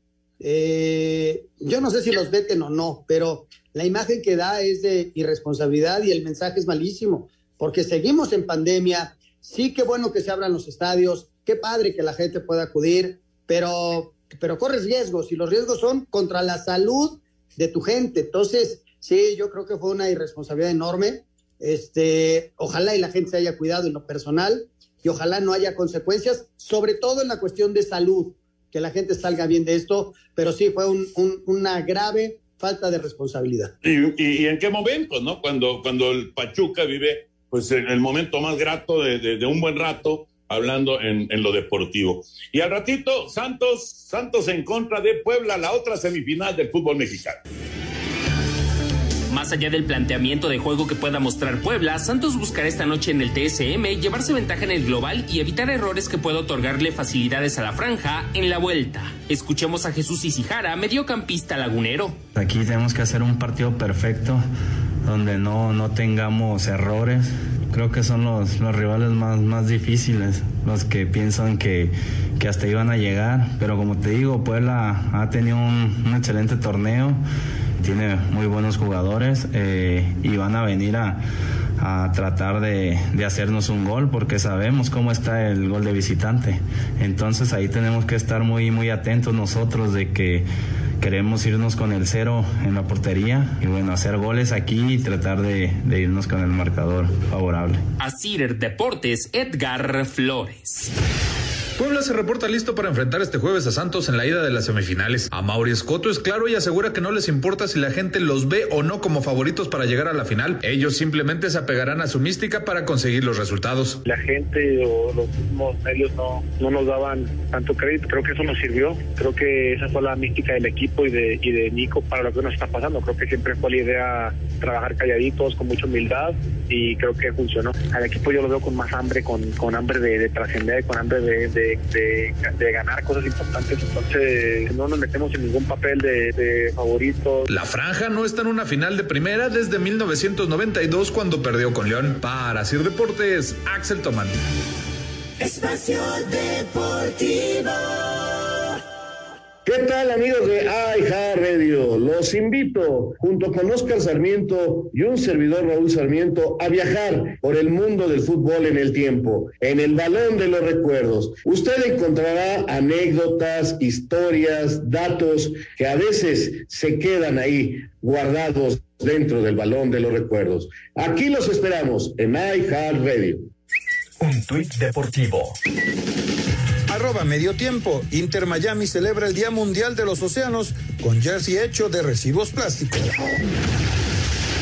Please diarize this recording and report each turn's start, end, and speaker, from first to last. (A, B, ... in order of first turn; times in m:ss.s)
0:00.4-0:33.7 A
0:33.8-0:47.4 B
0:49.3-1:02.2 C
1:02.3-1:04.4 D
1:05.0-1:17.2 D
1:17.8-1:21.2 D
1:21.8-1:30.5 D
1:31.0-1:37.8 D
1:38.0-1:40.9 C
1:41.8-1:54.0 E
1:54.0-2:17.5 F
2:17.5-2:24.3 E
2:29.6-2:53.5 G
2:54.4-2:55.3 H
2:56.9-3:03.1 H